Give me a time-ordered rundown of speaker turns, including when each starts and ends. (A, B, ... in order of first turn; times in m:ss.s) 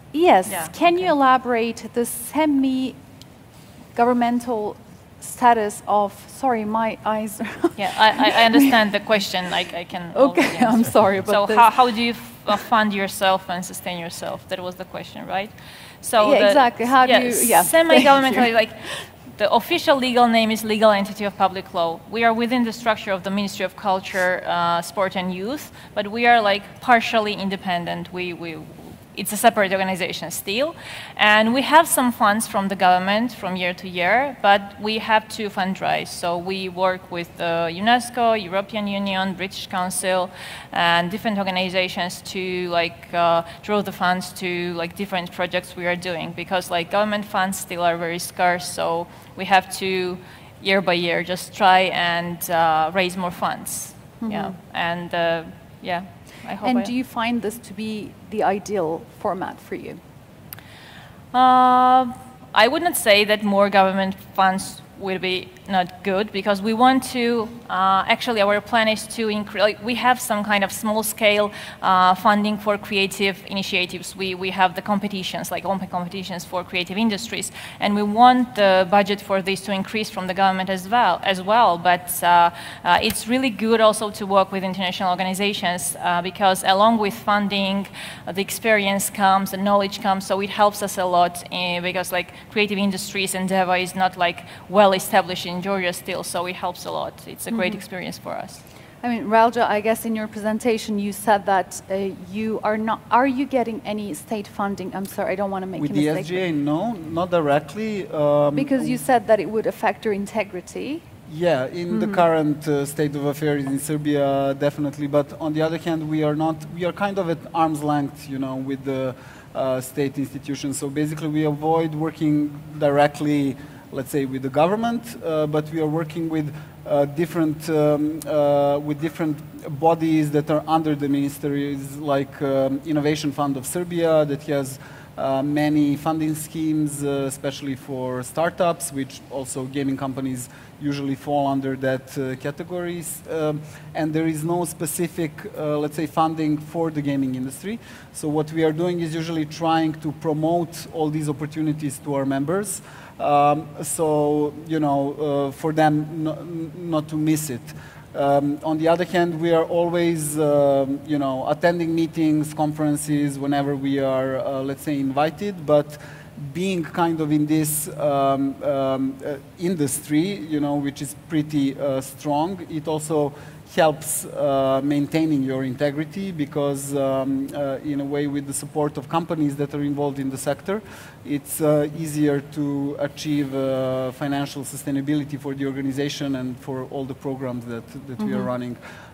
0:00.1-0:03.0 A
0:00.5-0:01.2 B
0:04.0-0:08.7 A
0:07.8-0:56.9 B
0:10.1-0:11.8 A
0:16.2-0:18.5 A
0:54.2-0:54.6 A
0:56.6-1:00.0 A
1:01.3-1:38.6 B
1:37.5-1:37.8 A
1:39.0-1:46.4 A
1:45.8-1:49.0 C
1:48.5-1:51.0 A
1:51.3-3:08.8 C
1:51.9-1:52.2 A
3:08.2-3:08.5 A